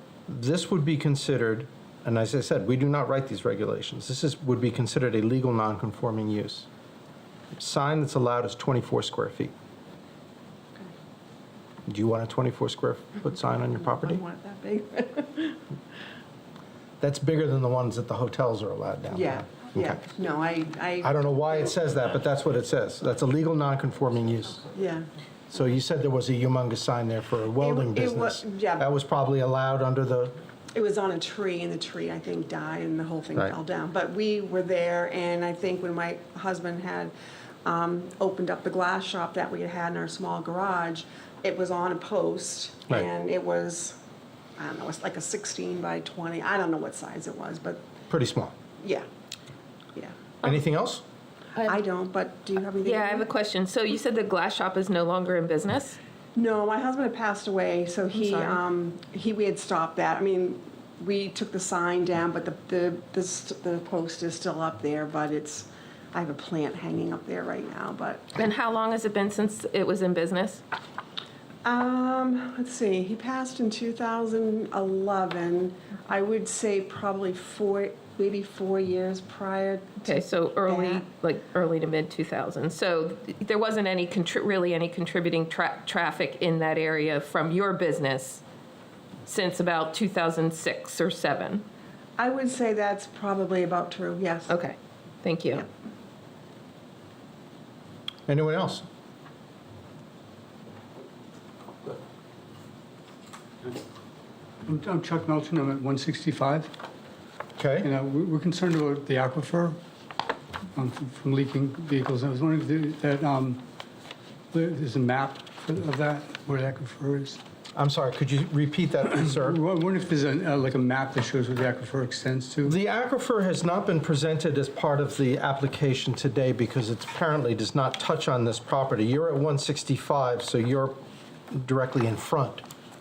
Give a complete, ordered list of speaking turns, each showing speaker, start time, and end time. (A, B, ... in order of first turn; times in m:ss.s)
0:00.3-0:06.7 A
0:07.5-0:09.5 A
0:11.9-0:14.2 A
0:13.9-0:15.6 B
0:17.0-0:20.0 A
0:19.1-0:21.7 B
0:21.0-0:24.6 A
0:24.7-0:25.0 B
0:25.5-0:30.3 A
0:27.6-0:28.9 B
0:30.7-0:37.1 B
0:37.6-0:44.0 B
0:44.6-0:47.8 B
0:48.1-0:48.5 A
0:48.8-0:49.0 B
0:50.4-0:51.0 A
0:51.6-0:53.3 B
0:52.8-0:56.0 C
0:56.3-1:08.3 B
0:58.1-0:58.6 C
1:08.4-1:10.6 C
1:11.6-1:21.1 B
1:20.0-1:28.4 C
1:29.2-1:31.6 C
1:32.2-1:34.5 B
1:34.5-1:35.6 C
1:38.3-1:38.8 A
1:44.6-1:46.7 D
1:47.6-1:47.9 A
1:47.8-1:49.8 D
1:50.7-1:53.6 D
1:54.5-1:57.4 D
1:57.7-1:59.6 A
1:59.1-2:02.8 D
2:02.6-2:11.0 A
2:11.5-2:12.6 A